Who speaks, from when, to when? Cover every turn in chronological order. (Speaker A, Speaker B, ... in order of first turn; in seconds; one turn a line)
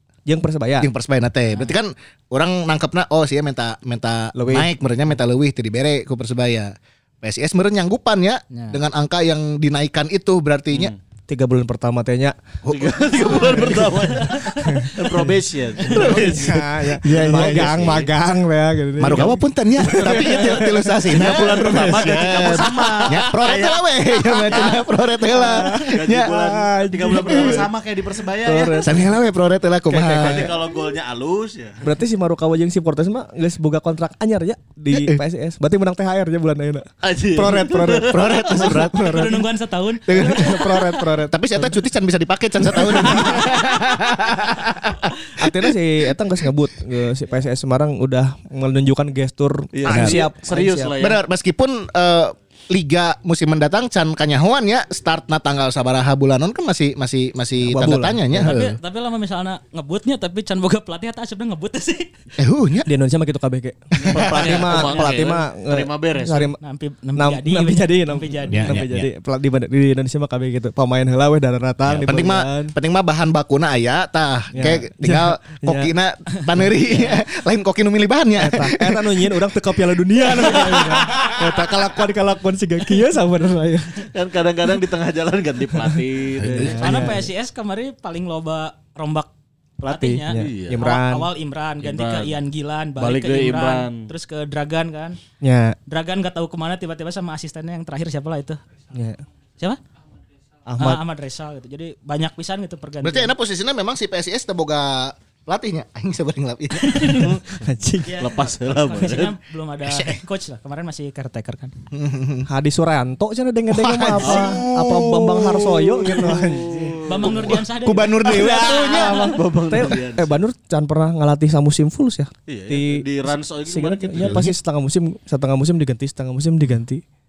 Speaker A: 0.3-0.9
Speaker B: 0.8-10.9
Speaker A: 4.3-4.7
Speaker C: 8.5-8.8
Speaker D: 10.7-11.0
Speaker A: 11.3-12.4
Speaker B: 12.7-14.2
Speaker D: 12.7-18.1
Speaker A: 13.6-13.9
Speaker C: 14.3-14.7
Speaker A: 14.6-15.3
Speaker A: 15.8-23.2
Speaker B: 15.9-18.1
Speaker B: 19.0-26.4
Speaker D: 19.1-29.1
Speaker A: 25.3-27.7
Speaker B: 27.1-27.6
Speaker A: 28.4-29.1
Speaker B: 28.8-30.6
Speaker A: 29.9-30.6
Speaker D: 30.0-31.8
Speaker A: 31.8-39.4
Speaker B: 34.9-35.2
Speaker D: 37.0-38.7
Speaker B: 38.0-39.4
Speaker C: 38.7-40.7
Speaker B: 40.1-45.7
Speaker A: 40.1-41.8
Speaker A: 42.7-43.4
Speaker A: 45.4-51.0
Speaker D: 49.7-51.2
Speaker B: 49.9-50.2
Speaker B: 51.0-58.8
Speaker A: 57.6-58.5
Speaker C: 58.4-62.1
Speaker B: 62.4-62.9
Speaker A: 62.9-66.6
Speaker D: 64.0-66.5
Speaker B: 64.1-64.8
Speaker C: 66.6-68.8
Speaker A: 67.2-72.8
Speaker B: 68.5-69.1
Speaker B: 71.9-79.3
Speaker A: 74.5-75.9
Speaker A: 78.4-84.1
Speaker D: 80.8-81.3
Speaker D: 84.0-87.0
Speaker A: 85.9-87.3
Speaker B: 86.4-86.9
Speaker C: 86.8-89.3
Speaker A: 89.8-91.3
Speaker C: 89.8-95.2
Speaker D: 90.3-90.9
Speaker D: 91.8-92.3
Speaker D: 93.0-94.1
Speaker A: 95.4-95.8
Speaker C: 95.9-98.6
Speaker A: 98.9-99.2
Speaker A: 100.7-101.0
Speaker C: 100.8-103.3
Speaker B: 103.0-107.4
Speaker C: 106.9-107.3
Speaker A: 107.2-108.2
Speaker C: 108.0-111.7
Speaker D: 108.2-109.3
Speaker B: 109.8-110.2
Speaker B: 111.9-112.5
Speaker A: 112.5-117.5
Speaker B: 113.7-116.5
Speaker D: 114.2-114.6
Speaker D: 116.1-117.5
Speaker C: 117.1-119.4
Speaker B: 117.2-119.3
Speaker A: 118.2-127.0
Speaker D: 119.0-120.4
Speaker D: 122.5-124.5
Speaker B: 124.2-124.5